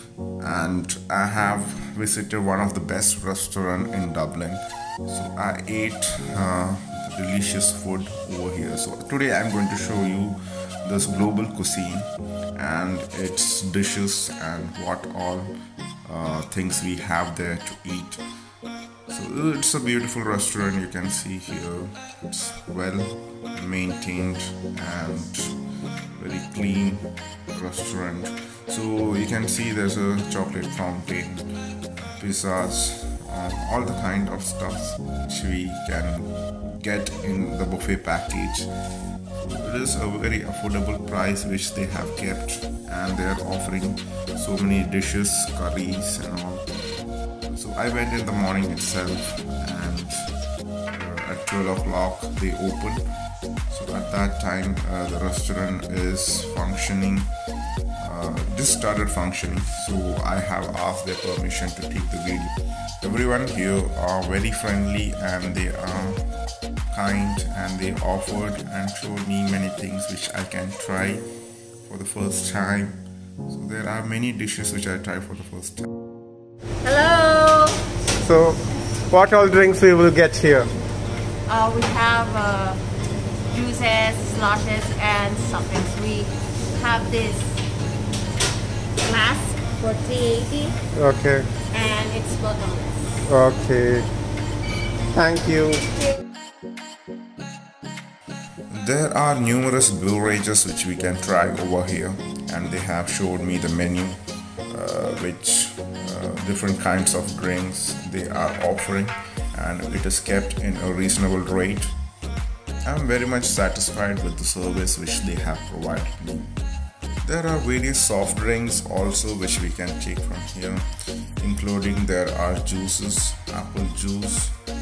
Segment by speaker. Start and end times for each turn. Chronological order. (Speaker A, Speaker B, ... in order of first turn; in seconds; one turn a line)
Speaker A: 0.4-18.2
Speaker A: 19.1-38.7
Speaker A: 39.4-46.7
Speaker A: 47.4-50.3
Speaker A: 50.9-53.1
Speaker A: 53.7-57.3
Speaker A: 58.0-66.3
Speaker A: 66.9-71.3
Speaker A: 71.8-75.9
Speaker B: 76.8-77.8
Speaker C: 78.2-80.7
Speaker B: 81.5-82.8
Speaker B: 83.5-87.6
Speaker B: 89.0-90.8
Speaker C: 91.0-91.5
Speaker B: 91.7-93.3
Speaker C: 93.3-94.1
Speaker C: 95.1-95.8
Speaker A: 98.7-112.0
Speaker A: 112.8-116.5
Speaker A: 117.2-124.6